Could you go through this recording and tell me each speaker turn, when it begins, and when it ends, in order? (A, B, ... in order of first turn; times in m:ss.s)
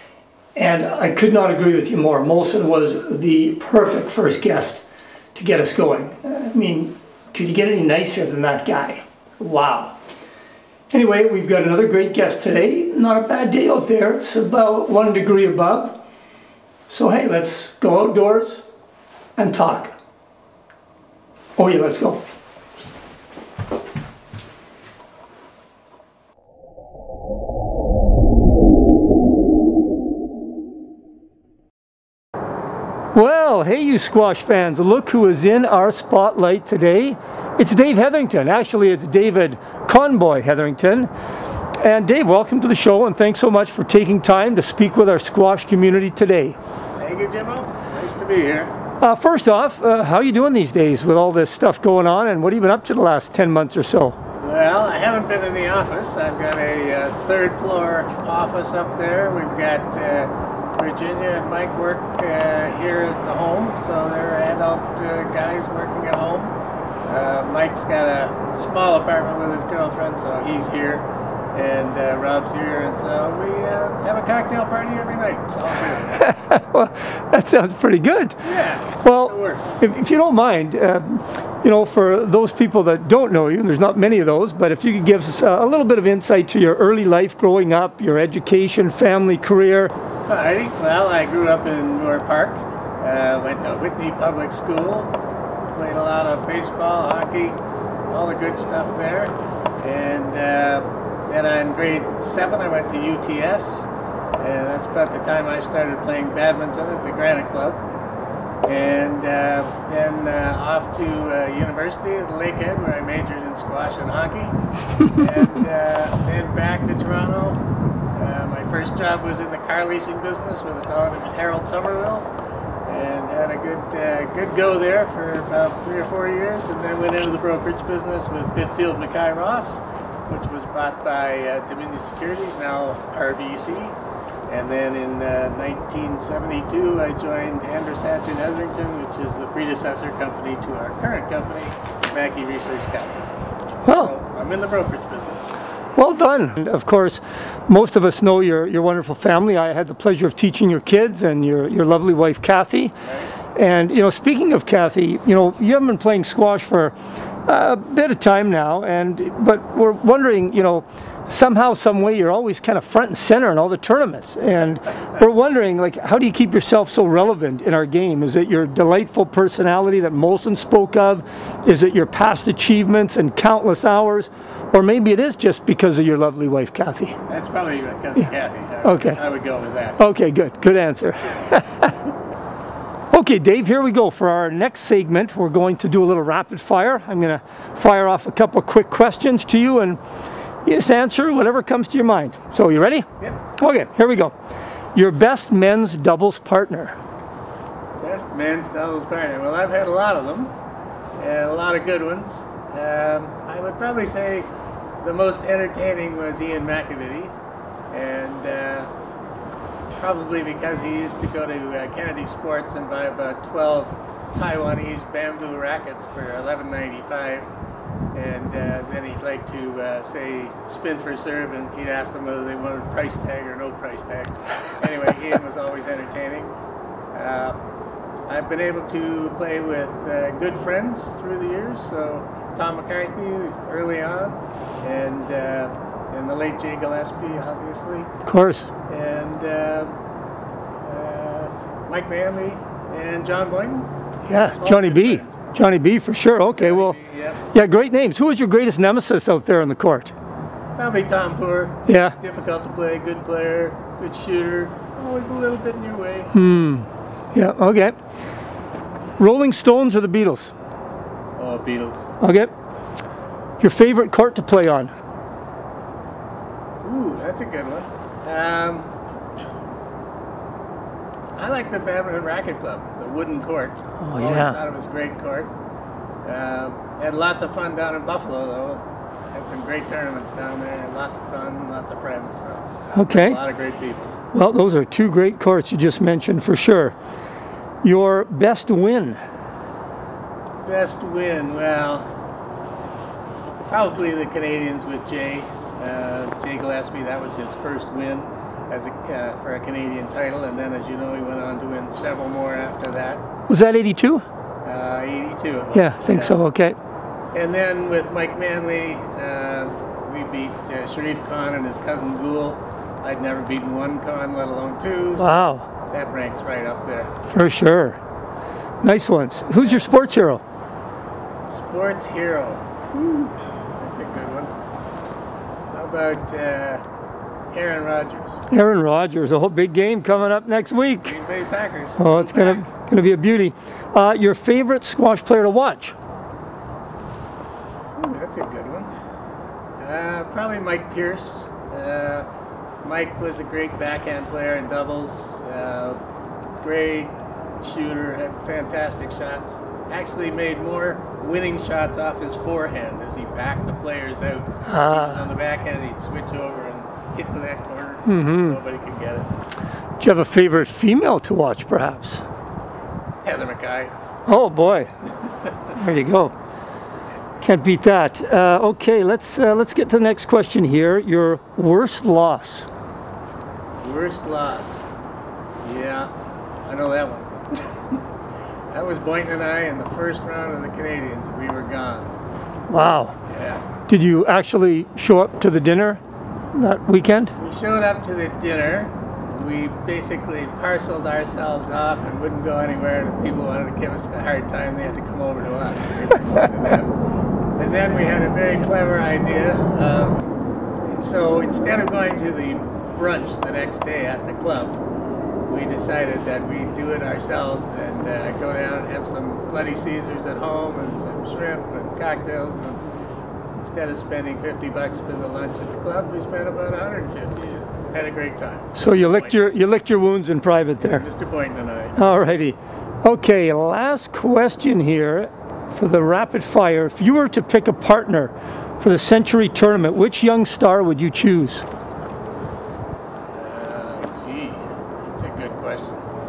0:00.5-0:10.0 A
0:10.9-0:16.0 A
0:16.9-0:18.6 A
0:19.4-0:20.0 A
0:21.6-0:22.2 A
0:33.1-0:41.1 A
0:41.8-0:46.6 A
0:47.0-0:48.7 B
0:49.0-0:54.2 A
0:54.4-1:06.5 B
1:07.1-1:16.2 B
1:16.2-1:18.4 A
1:18.4-1:19.6 B
1:19.0-1:29.9 A
1:30.3-1:35.1 B
1:35.7-1:47.8 B
1:48.6-1:54.5 B
1:55.1-1:57.6 B
1:58.2-2:02.3 B
2:02.9-2:14.0 B
2:14.5-2:23.2 B
2:23.8-2:24.1 A
2:23.9-2:25.5 B
2:26.0-2:32.9 A
2:33.0-2:33.3 B
2:33.5-2:36.9 A
2:37.4-2:57.2 A
2:57.3-3:00.0 B
2:58.8-2:59.2 A
3:00.0-3:01.9 A
3:03.1-3:10.0 A
3:10.6-3:13.0 A
3:13.6-3:14.3 A
3:14.9-3:17.0 A
3:18.0-3:20.5 B
3:21.2-3:24.5 B
3:25.0-3:27.3 B
3:27.9-3:28.9 B
3:30.0-3:37.5 B
3:38.1-3:46.5 B
3:47.1-3:47.6 B
3:48.3-3:58.1 B
3:58.2-3:58.7 A
3:58.9-3:59.9 B
4:00.8-4:03.9 B
4:04.3-4:07.0 A
4:04.5-4:05.4 B
4:06.5-4:07.4 B
4:07.5-4:10.1 A
4:10.8-4:16.3 B
4:11.9-4:12.2 A
4:16.3-4:18.0 A
4:19.2-4:20.5 A
4:21.4-4:22.1 B
4:22.2-4:22.5 A
4:23.6-4:24.9 A
4:26.8-4:28.9 B
4:31.4-4:35.5 B
4:34.0-4:34.6 A
4:36.2-4:44.1 B
4:42.9-4:43.4 A
4:44.3-4:46.9 A
4:47.8-4:49.2 A
4:50.6-4:52.1 B
4:53.7-5:03.2 B
5:03.5-5:04.2 A
5:04.6-5:06.4 B
5:05.7-5:06.8 A
5:07.3-5:15.3 B
5:15.2-5:15.7 A
5:15.9-5:17.1 B
5:17.3-5:18.0 A
5:18.8-5:20.4 A
5:21.4-5:24.5 B
5:25.7-5:26.8 B
5:27.5-5:28.4 B
5:28.5-5:31.1 A
5:31.0-5:32.7 B
5:32.0-5:35.9 A
5:38.0-5:38.9 B
5:39.8-5:42.2 B
5:42.8-5:46.0 B
5:46.6-5:59.3 B
5:54.7-5:55.2 A
5:58.0-5:58.6 A
6:00.0-6:02.2 A
6:03.2-6:03.9 B
6:04.3-6:04.9 A
6:05.7-6:06.3 A
6:07.4-6:12.6 A
6:13.8-6:14.8 B
6:15.6-6:16.1 B
6:16.6-6:18.0 B
6:18.7-6:22.2 B
6:22.7-6:23.1 A
6:23.3-6:23.6 B
6:23.9-6:26.0 A
6:26.5-6:27.3 A
6:27.4-6:36.9 B
6:37.6-6:40.3 B
6:40.9-6:44.8 B
6:45.5-6:52.8 B
6:53.6-6:59.4 B
6:58.7-7:01.0 A
7:00.8-7:02.0 B
7:02.0-7:11.6 A
7:13.3-7:16.0 B